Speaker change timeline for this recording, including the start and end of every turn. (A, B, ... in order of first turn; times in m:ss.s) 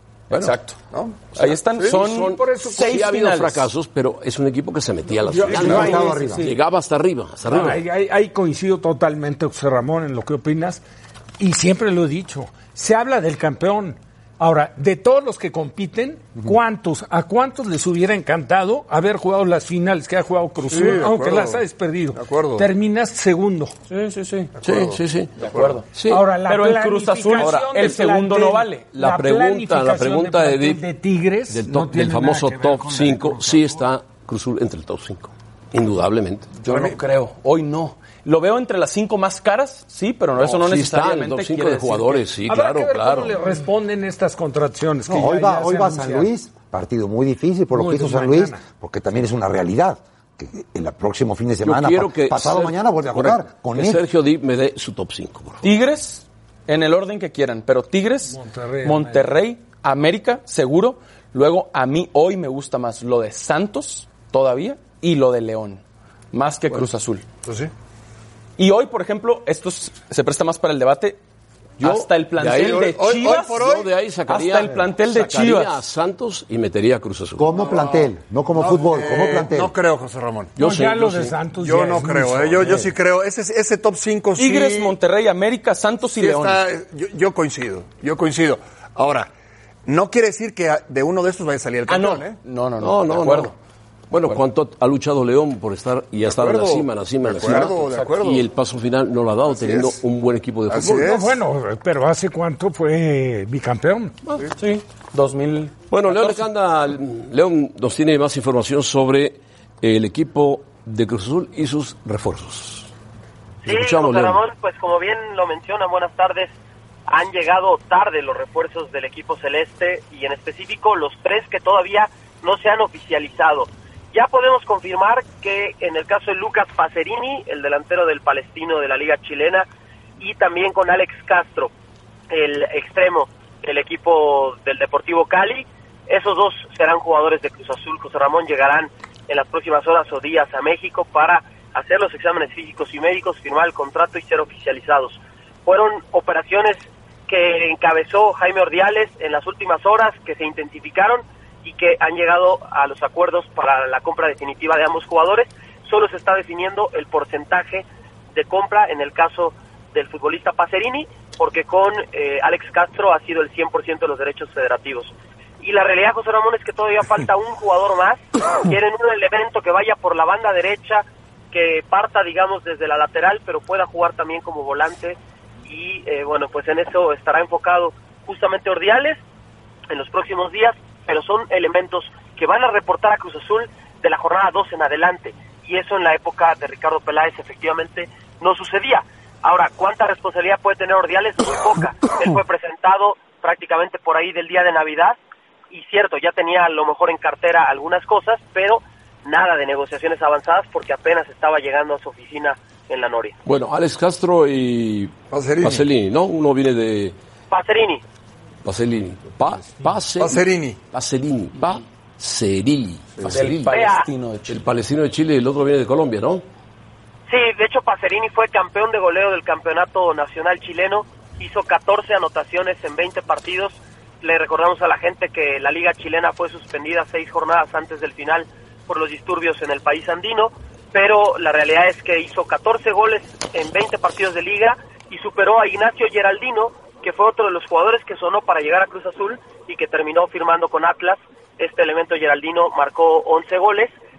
0:00.3-0:00.6 A
0:00.3-0:00.8 B
0:00.9-0:01.9 C
0:01.3-0:03.7 B
0:01.8-0:07.8 A
0:02.4-0:02.9 D
0:05.2-0:06.5 D
0:05.5-0:05.8 C
0:05.5-0:06.4 E
0:07.5-0:10.8 D
0:11.4-0:23.8 D
0:20.7-0:21.6 C
0:22.1-0:22.7 C
0:23.9-0:24.5 B
0:24.6-0:25.8 C
0:24.6-0:26.2 A
0:25.4-0:28.9 B
0:26.1-0:33.8 D
0:28.9-0:30.8 A
0:31.5-0:36.5 A
0:36.6-0:42.3 B
0:36.6-0:37.0 C
0:40.4-0:43.3 A
0:42.5-0:46.3 D
0:45.1-0:54.0 E
0:47.7-0:48.6 D
0:51.6-0:55.6 A
0:55.6-1:07.2 B
0:58.3-0:59.4 D
1:07.4-1:07.7 C
1:08.6-1:11.2 B
1:11.8-1:13.0 A
1:11.8-1:13.7 B
1:12.6-1:13.9 C
1:13.5-1:17.5 A
1:14.3-1:15.8 B
1:17.4-1:19.7 E
1:17.6-1:20.6 C
1:20.6-1:21.4 A
1:20.6-1:22.8 D
1:21.5-1:25.0 C
1:24.4-1:26.6 B
1:26.1-1:29.3 C
1:29.8-1:32.4 C
1:31.9-1:33.5 B
1:32.8-1:33.5 A
1:34.1-1:41.1 A
1:36.2-1:38.4 C
1:37.4-1:38.2 B
1:39.5-1:40.0 C
1:40.7-1:41.4 C
1:40.9-1:44.2 D
1:44.5-1:46.5 B
1:45.9-1:52.9 A
1:53.6-1:56.5 F
1:53.6-1:54.4 A
1:57.1-2:09.6 F
2:10.2-2:11.7 F
2:12.3-2:59.2 F
2:59.9-3:15.2 F
3:15.7-3:23.4 F
3:23.4-3:27.2 A
3:25.3-3:25.9 C
3:27.5-3:28.0 F
3:28.6-3:33.9 A
3:30.2-3:30.8 C
3:33.2-3:34.6 B
3:33.7-3:34.1 F
3:34.5-3:36.4 A
3:37.3-4:03.9 F